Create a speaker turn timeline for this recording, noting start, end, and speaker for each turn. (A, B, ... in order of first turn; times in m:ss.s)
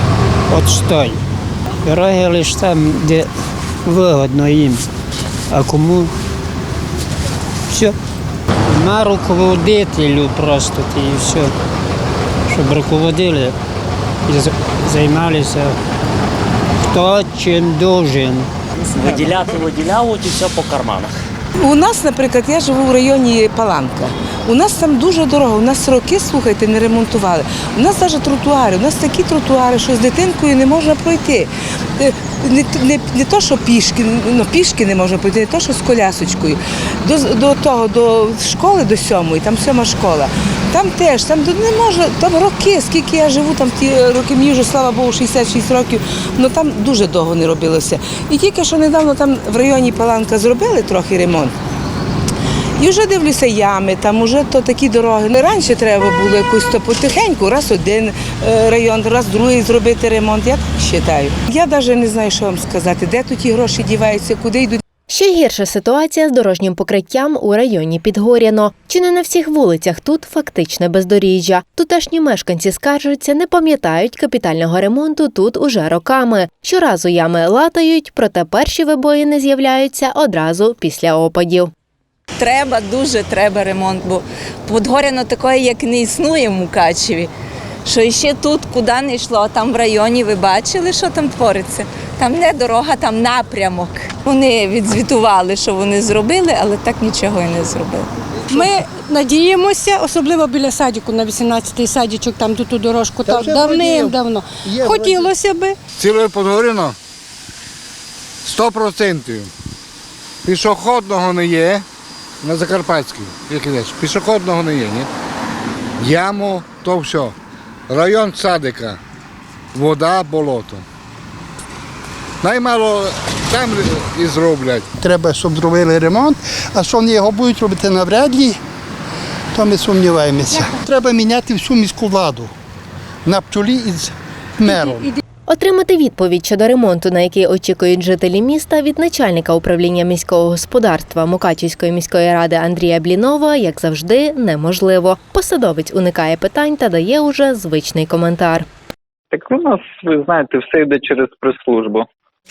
0:00.5-0:01.2 A
0:01.8-0:03.2 A
0:03.8-0:04.8 A
0:05.5-0:06.1 A
0:08.7-0:11.5 A
0:12.5-0:13.5 A
0:14.3-0:15.7 A
0:16.9-0:18.5 A
0:18.9-0:21.2 B
0:21.6-0:51.5 C
0:52.8-1:04.8 C
1:05.1-1:21.7 D
1:22.4-1:27.3 E
1:27.8-1:38.1 E
1:38.5-1:45.8 F
1:43.2-1:45.3 G
1:46.0-1:47.0 H
1:48.4-1:49.5 H
1:50.4-1:51.8 H
1:52.4-1:55.1 H
1:56.0-1:57.4 H
1:57.9-1:59.0 H
1:59.7-2:00.8 H
2:02.4-2:04.9 H
2:05.0-2:08.6 G
2:09.5-2:12.5 G
2:13.2-2:15.1 G
2:15.5-2:28.7 D
2:29.3-2:32.1 I